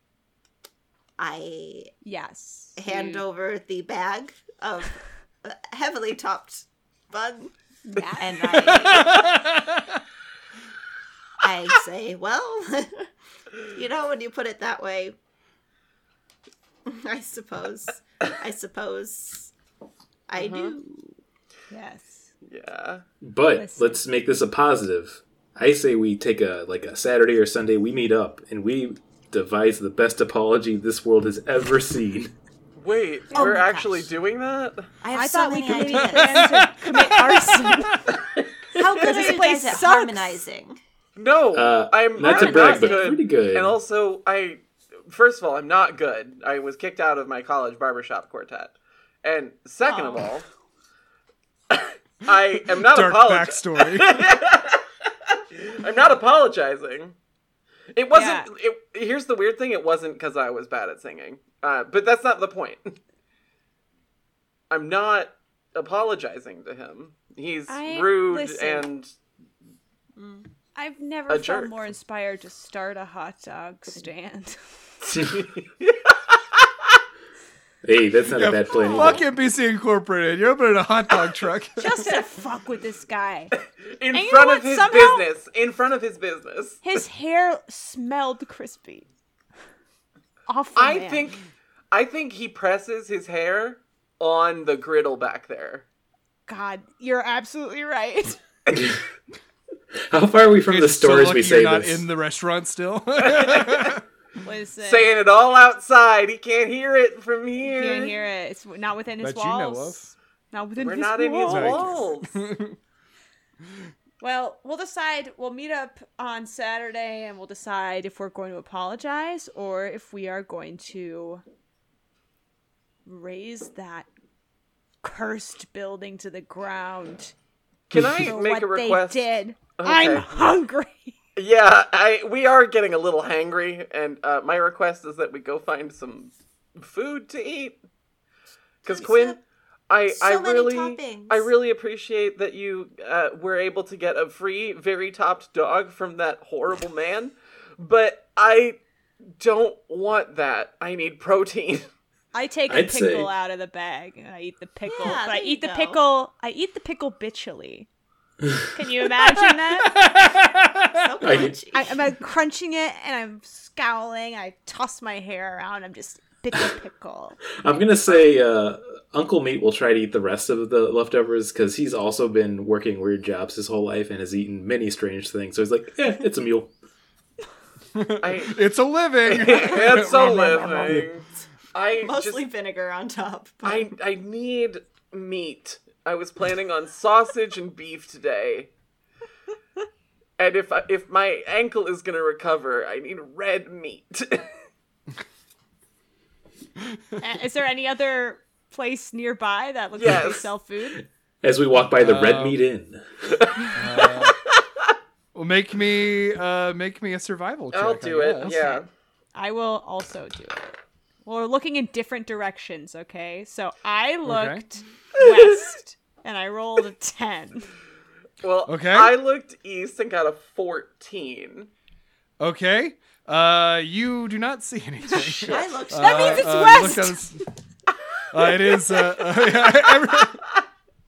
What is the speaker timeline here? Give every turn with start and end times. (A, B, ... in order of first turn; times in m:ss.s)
0:01.2-0:01.9 A
0:02.0-0:03.2 B
0:02.8-0:07.5 A
0:07.8-0:08.7 B
0:08.1-0:09.4 A
0:08.6-0:10.0 C
0:11.4-0:13.1 A
0:13.7-0:15.2 A
0:16.8-0:19.5 A
0:20.3-0:21.2 A
0:20.3-0:20.8 D
0:21.7-0:22.3 B
0:22.4-0:23.0 D
0:23.2-0:32.3 E
0:23.5-0:24.0 B
0:32.8-0:34.9 D
0:33.3-0:34.1 A
0:33.3-0:33.6 B
0:35.0-0:36.7 A
0:35.1-0:38.0 B
0:35.8-0:38.0 C
0:38.7-0:40.8 A
0:38.9-0:40.4 B
0:39.0-0:39.4 D
0:41.2-0:50.4 D
0:41.5-0:43.8 E
0:42.2-0:43.1 B
0:51.7-0:54.8 D
0:52.7-0:54.2 C
0:55.5-0:57.1 D
0:57.9-1:03.0 D
0:58.1-0:58.5 B
1:04.7-1:09.1 D
1:07.7-1:08.9 B
1:10.2-1:10.4 A
1:10.8-1:14.6 B
1:11.3-1:11.8 D
1:15.1-1:16.7 D
1:17.8-1:19.2 E
1:18.3-1:22.0 C
1:18.8-1:19.2 B
1:21.8-1:23.5 B
1:23.8-1:26.8 D
1:24.1-1:25.2 B
1:26.8-1:29.1 B
1:30.5-1:31.3 B
1:30.7-1:35.8 D
1:36.5-1:38.4 B
1:38.7-1:39.0 E
1:40.1-1:42.0 E
1:40.7-1:44.0 C
1:43.2-1:43.9 D
1:44.4-1:45.1 B
1:44.8-1:48.2 D
1:47.6-1:50.0 B
1:49.2-1:50.1 C
1:50.5-1:52.0 B
1:50.8-1:52.4 D
1:51.5-1:52.8 C
1:54.2-2:01.4 B
2:03.0-2:04.1 B
2:05.0-2:07.3 B
2:07.9-2:10.6 D
2:07.9-2:08.3 E
2:08.2-2:11.2 B
2:11.4-2:17.8 D
2:18.8-2:19.4 D
2:18.9-2:19.4 A
2:19.9-2:28.8 D
2:20.1-2:21.5 A
2:29.4-2:31.8 D
2:32.3-2:37.9 B
2:32.7-2:33.3 E
2:34.9-2:36.0 A
2:38.7-2:39.9 B
2:40.0-2:40.9 C
2:40.9-2:41.9 A
2:41.2-2:41.6 E
2:41.7-2:47.4 B
2:47.6-2:56.7 E
2:57.9-3:01.0 C
2:58.2-2:58.6 D
2:59.2-3:02.4 D
3:00.0-3:01.0 A
3:02.0-3:03.9 A
3:03.6-3:08.7 D
3:10.4-3:14.5 D
3:17.2-3:21.0 B
3:20.0-3:20.4 D
3:21.4-3:23.5 E
3:21.9-3:22.6 C
3:23.4-3:24.6 D
3:23.7-3:24.4 C
3:25.3-3:28.6 C
3:27.7-3:28.9 D
3:28.4-3:28.8 B
3:29.3-3:37.7 B
3:34.2-3:34.6 C
3:35.2-3:35.6 D
3:38.4-3:41.7 D
3:38.7-3:39.1 C
3:42.4-3:47.4 C
3:45.1-3:47.2 B
3:45.5-3:47.0 A
3:48.3-3:50.4 C